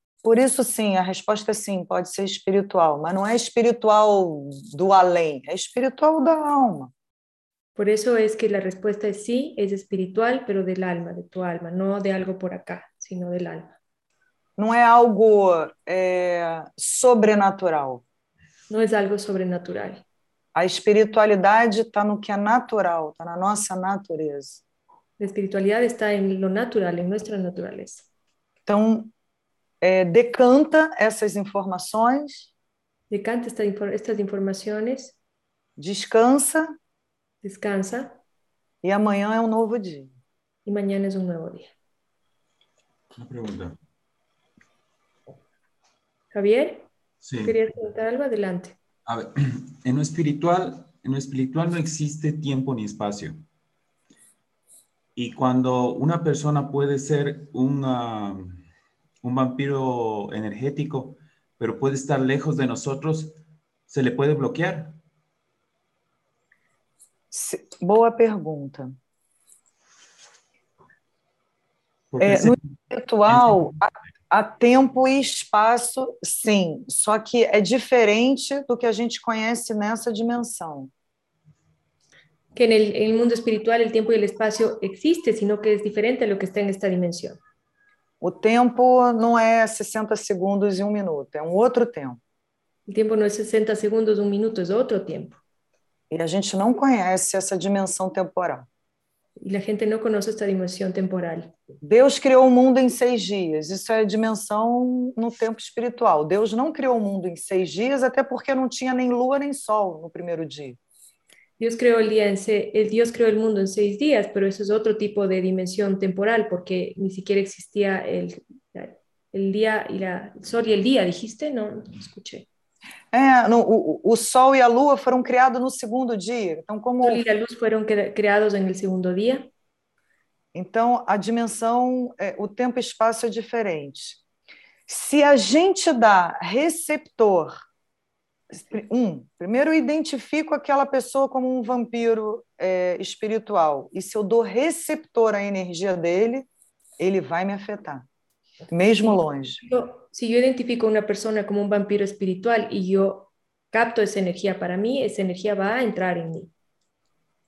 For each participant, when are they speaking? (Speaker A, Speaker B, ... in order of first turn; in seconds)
Speaker A: 0.2-6.9, 14.6-18.0, 20.6-24.6, 28.7-29.1, 29.8-32.5, 35.8-36.7, 38.8-40.1, 67.3-69.0, 72.2-80.9, 88.2-92.2, 96.1-98.7, 101.8-110.8, 123.1-127.2, 130.5-134.2, 134.9-137.6, 138.5-146.5, 147.0-148.1, 148.7-149.6
Speaker B: 7.8-13.8, 18.7-20.0, 25.2-28.1, 33.1-35.1, 37.4-38.2, 40.7-41.7, 46.3-46.9, 47.4-48.8, 82.5-87.4, 92.9-95.4, 99.4-101.5, 111.6-122.5, 127.0-129.5, 149.0-156.5
Speaker C: 43.2-43.8, 47.2-47.5, 49.0-53.4, 55.2-58.6, 59.2-63.4, 63.9-65.0, 72.1-72.7, 73.3-73.6